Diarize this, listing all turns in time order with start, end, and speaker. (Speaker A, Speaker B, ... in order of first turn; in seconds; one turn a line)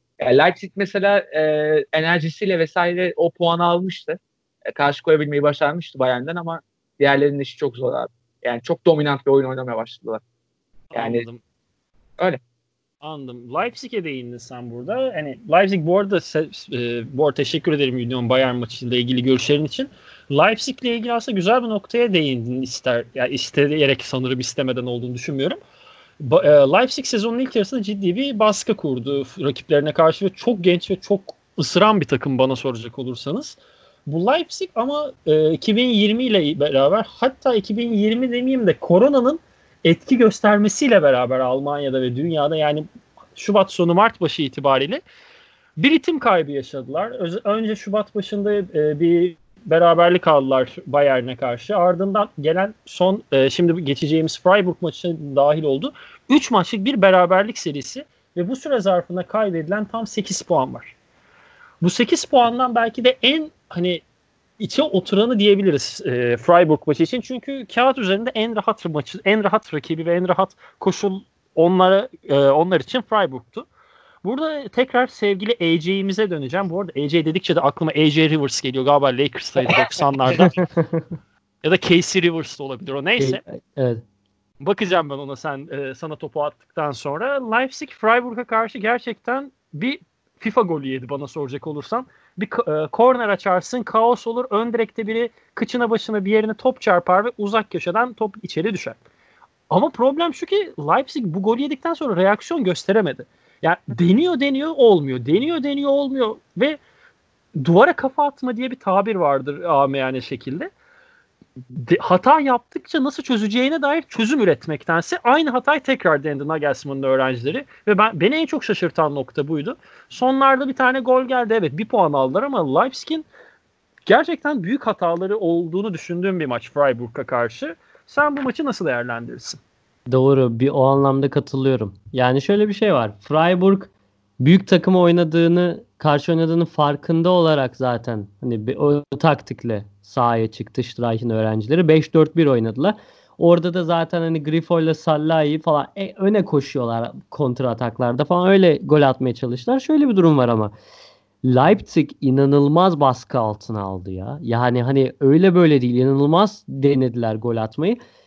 Speaker A: 0.2-10.2
Speaker B: 10.9-11.4
Speaker A: 10.9-11.2
Speaker B: 13.0-25.6
Speaker B: 26.2-45.0
Speaker B: 45.8-60.9
Speaker B: 61.8-64.0
Speaker B: 64.6-73.7
Speaker B: 74.2-80.6
Speaker C: 80.5-81.0
Speaker B: 81.6-83.4
Speaker C: 83.2-84.0
Speaker B: 84.6-99.0
Speaker B: 99.7-106.8
Speaker B: 107.5-110.7
Speaker B: 111.7-123.3
Speaker B: 124.0-129.6
Speaker C: 130.1-150.7
Speaker C: 151.4-158.0